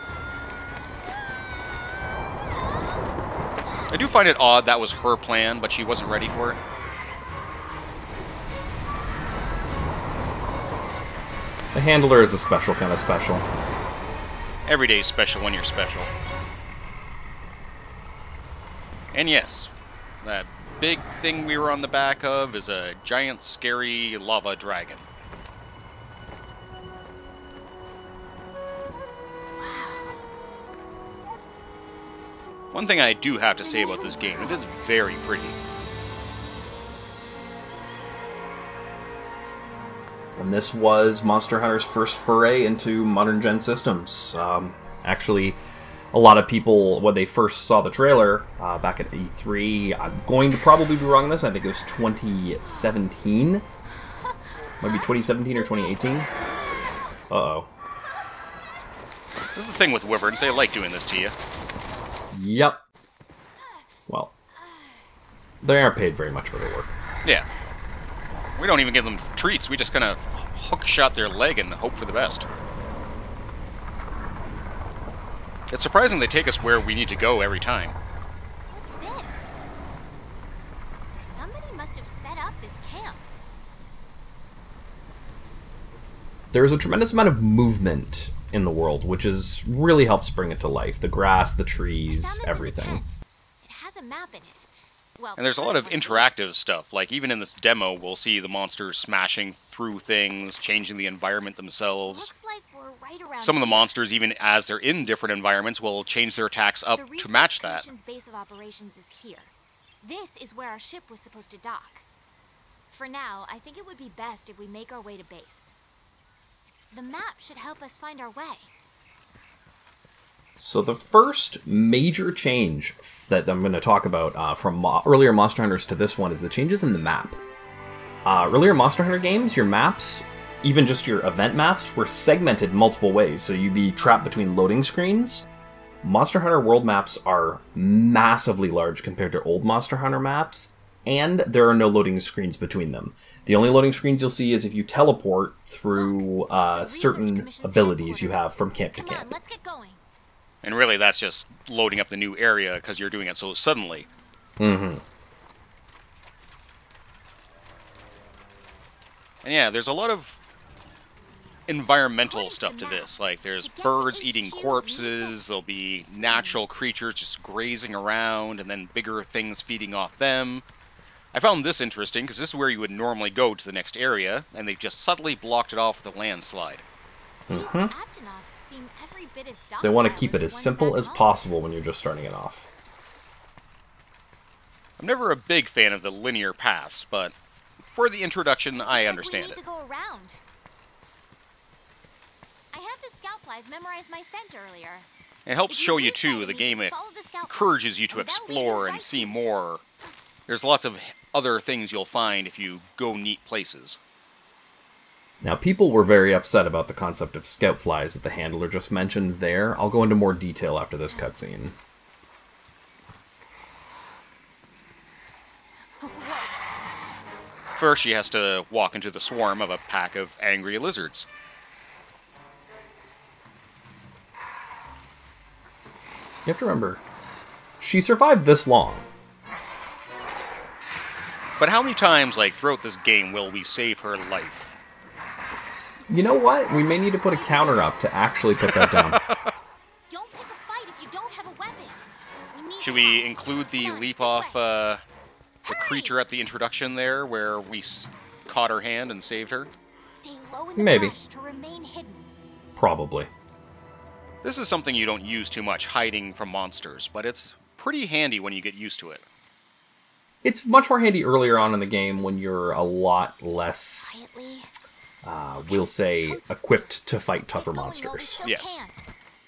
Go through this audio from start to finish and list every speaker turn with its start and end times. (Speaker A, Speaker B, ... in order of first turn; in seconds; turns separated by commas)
Speaker A: 3.9-6.6, Speaker B: 11.7-13.5, Speaker A: 14.7-16.1, Speaker A: 19.1-25.1, Speaker C: 29.6-30.2, Speaker A: 32.7-35.6, Speaker C: 33.6-35.0, Speaker B: 40.4-45.6, Speaker B: 46.1-53.6, Speaker C: 52.6-53.0, Speaker C: 54.2-56.3, Speaker B: 54.8-56.3, Speaker B: 57.3-57.7, Speaker A: 59.5-61.4, Speaker B: 62.3-62.8, Speaker C: 63.6-63.9, Speaker C: 64.5-65.0, Speaker B: 65.6-66.9, Speaker A: 68.6-72.5, Speaker A: 75.7-78.0, Speaker C: 78.7-79.5, Speaker C: 81.2-83.2, Speaker B: 86.5-93.0, Speaker C: 92.1-96.4, Speaker A: 95.4-102.3, Speaker C: 102.0-103.9, Speaker A: 103.4-107.9, Speaker C: 106.9-112.0, Speaker C: 112.9-115.7, Speaker C: 116.9-118.7, Speaker B: 120.6-127.4, Speaker B: 128.2-135.5, Speaker B: 136.0-149.3, Speaker C: 145.9-150.0, Speaker A: 150.6-154.1, Speaker B: 154.6-155.0, Speaker A: 159.4-160.4, Speaker A: 161.7-170.6, Speaker C: 162.2-165.4, Speaker C: 166.2-166.6, Speaker A: 171.3-176.8, Speaker B: 177.5-177.9, Speaker C: 177.5-181.3, Speaker B: 179.8-182.7, Speaker A: 185.0-189.6, Speaker C: 188.8-190.4, Speaker C: 192.7-195.1, Speaker A: 195.5-196.9, Speaker C: 195.7-199.4, Speaker A: 197.5-199.8, Speaker A: 200.5-204.0, Speaker B: 205.4-211.8, Speaker C: 216.0-216.6, Speaker A: 217.8-221.3, Speaker B: 226.5-227.0, Speaker B: 227.8-229.1, Speaker A: 231.6-234.7, Speaker B: 236.1-239.2, Speaker C: 236.7-238.1, Speaker A: 238.7-239.3, Speaker C: 240.1-242.0, Speaker C: 242.5-244.6, Speaker A: 242.8-245.0, Speaker C: 245.6-246.2, Speaker A: 245.7-249.7, Speaker C: 250.0-252.3, Speaker B: 250.8-251.1, Speaker B: 252.8-253.3, Speaker A: 254.4-259.2, Speaker B: 260.4-264.1, Speaker C: 264.0-264.7, Speaker B: 265.2-268.4, Speaker C: 265.6-268.9, Speaker A: 268.4-268.8